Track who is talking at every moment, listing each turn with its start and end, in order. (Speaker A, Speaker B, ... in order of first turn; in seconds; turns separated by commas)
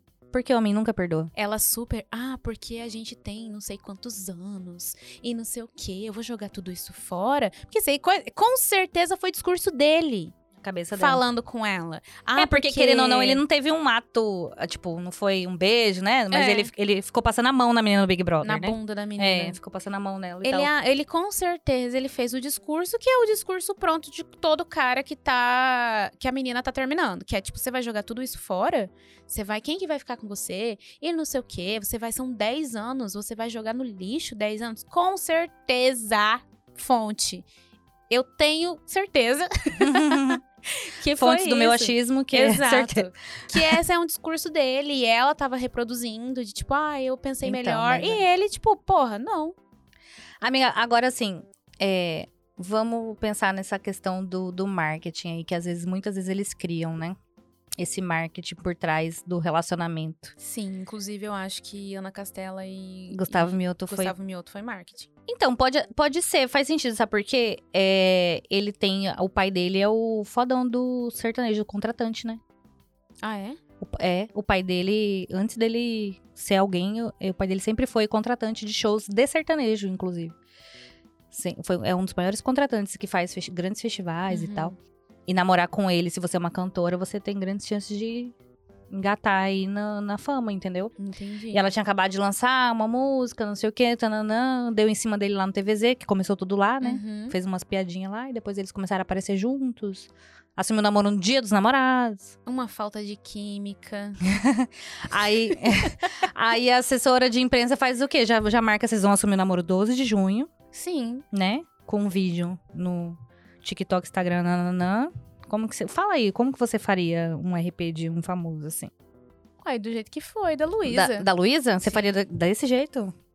Speaker A: 0.3-1.3, Speaker B: 1.4-10.3, Speaker A: 10.6-11.2, Speaker B: 10.9-13.4, Speaker A: 12.4-20.7, Speaker B: 16.3-16.7, Speaker B: 18.4-19.6, Speaker B: 20.4-37.5, Speaker B: 38.1-49.6, Speaker A: 39.8-40.4, Speaker A: 41.2-43.8, Speaker A: 47.4-48.2, Speaker A: 50.4-57.2, Speaker A: 57.8-60.4, Speaker B: 60.4-65.1, Speaker A: 63.1-64.1, Speaker A: 65.3-72.4, Speaker B: 73.2-73.6, Speaker A: 73.8-80.4, Speaker A: 81.3-84.8, Speaker B: 84.3-84.8, Speaker A: 85.3-88.3, Speaker A: 88.9-90.9, Speaker B: 91.0-91.7, Speaker A: 91.5-102.3, Speaker B: 96.8-97.4, Speaker B: 102.5-104.2, Speaker A: 104.2-110.5, Speaker B: 105.5-106.0, Speaker B: 110.7-111.3, Speaker A: 111.3-118.9, Speaker B: 119.6-121.3, Speaker A: 120.9-123.1, Speaker B: 121.8-122.1